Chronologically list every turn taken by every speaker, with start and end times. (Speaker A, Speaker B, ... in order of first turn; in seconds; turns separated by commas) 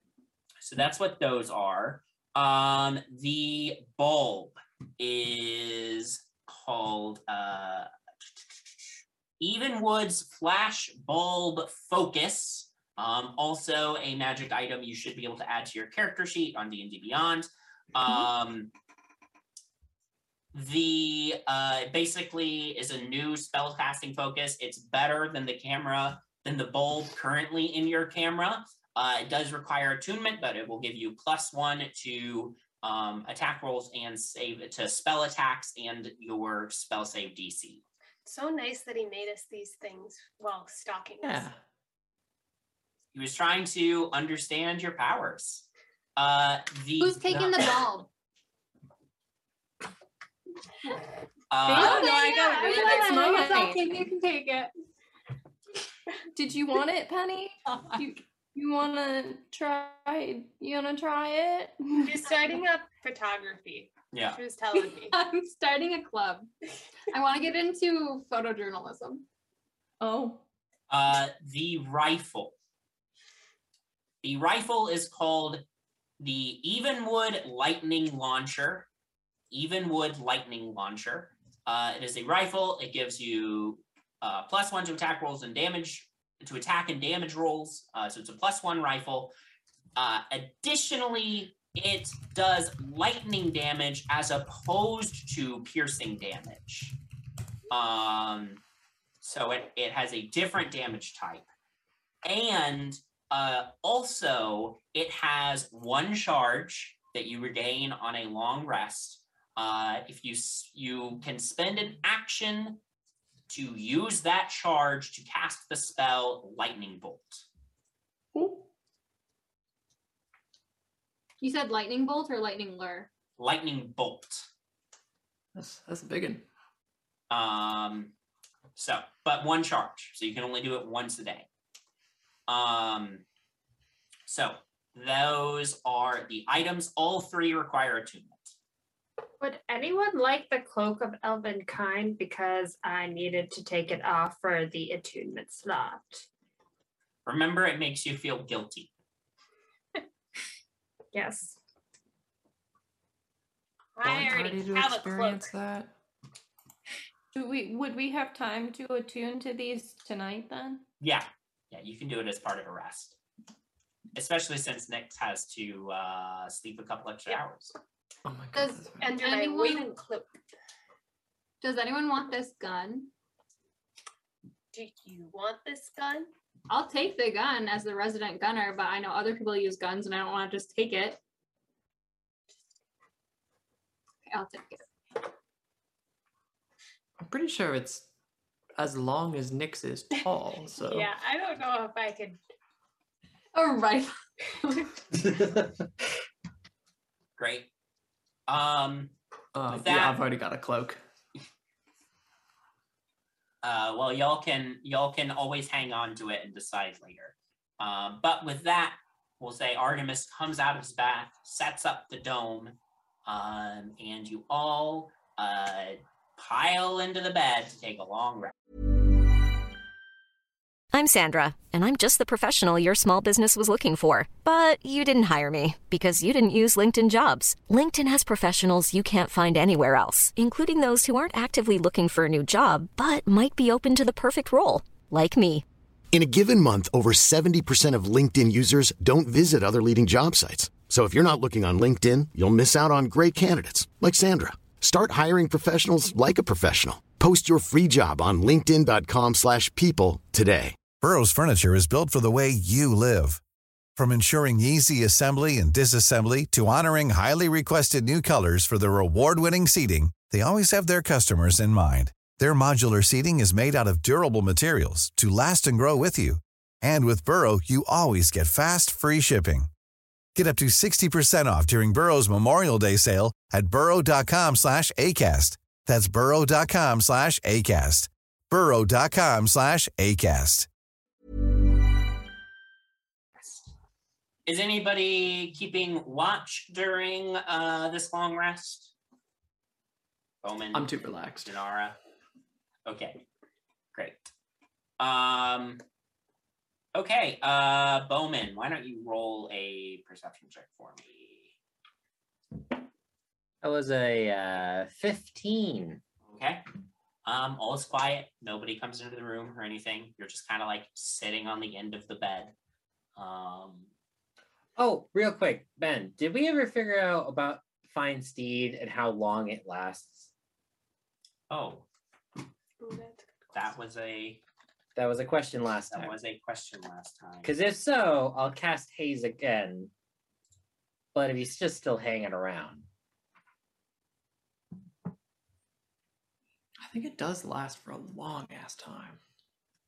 Speaker A: 0.6-7.9, Speaker A: 9.4-18.7, Speaker A: 20.5-37.8, Speaker B: 38.2-41.5, Speaker C: 41.2-41.6, Speaker A: 43.1-47.8, Speaker D: 47.0-48.1, Speaker A: 51.5-52.0, Speaker E: 51.7-54.0, Speaker D: 51.7-54.7, Speaker B: 51.7-53.4, Speaker E: 56.3-62.3, Speaker B: 62.0-65.2, Speaker A: 64.1-64.4, Speaker D: 64.8-66.5, Speaker D: 67.1-69.2, Speaker E: 70.0-70.4, Speaker A: 70.9-72.5, Speaker A: 74.2-75.6, Speaker A: 76.2-78.9, Speaker A: 79.5-89.3, Speaker A: 90.0-97.0, Speaker A: 97.7-98.6, Speaker A: 99.2-101.5, Speaker A: 102.2-112.8, Speaker A: 113.5-117.4, Speaker E: 118.3-118.7, Speaker D: 121.4-123.1, Speaker A: 123.4-124.5, Speaker C: 125.5-126.4, Speaker A: 127.3-128.1, Speaker A: 128.8-131.5, Speaker A: 132.5-133.2, Speaker A: 134.3-138.5, Speaker F: 139.4-146.2, Speaker A: 147.2-148.9, Speaker F: 151.1-151.6, Speaker B: 153.9-155.5, Speaker C: 154.0-155.9, Speaker E: 157.3-160.8, Speaker A: 161.0-163.2, Speaker A: 164.1-167.7, Speaker C: 168.2-169.1, Speaker D: 168.5-169.9, Speaker B: 169.0-170.3, Speaker D: 171.6-173.1, Speaker B: 174.7-176.3, Speaker D: 176.7-181.2, Speaker D: 184.2-184.8, Speaker C: 187.2-188.1, Speaker C: 188.8-191.1, Speaker B: 190.8-192.4, Speaker D: 193.5-194.9, Speaker A: 197.4-197.7, Speaker A: 198.5-199.1, Speaker C: 199.5-201.0, Speaker A: 199.7-200.2, Speaker A: 203.6-218.5, Speaker G: 220.9-235.6, Speaker H: 236.1-250.8, Speaker I: 250.9-253.4, Speaker I: 253.9-269.7, Speaker I: 270.3-280.7, Speaker A: 284.4-288.9, Speaker A: 290.4-291.9, Speaker C: 290.7-291.5, Speaker A: 292.9-293.2, Speaker A: 293.9-294.3, Speaker A: 295.0-295.8, Speaker A: 296.9-301.5, Speaker J: 303.6-306.0, Speaker A: 306.2-306.6, Speaker A: 307.2-312.5, Speaker A: 313.1-313.9, Speaker J: 314.8-320.3, Speaker A: 321.5-321.8, Speaker B: 322.8-323.5, Speaker A: 323.5-324.4, Speaker J: 324.9-326.1, Speaker A: 325.9-327.5, Speaker J: 327.4-329.9, Speaker J: 331.1-332.8, Speaker C: 336.8-339.2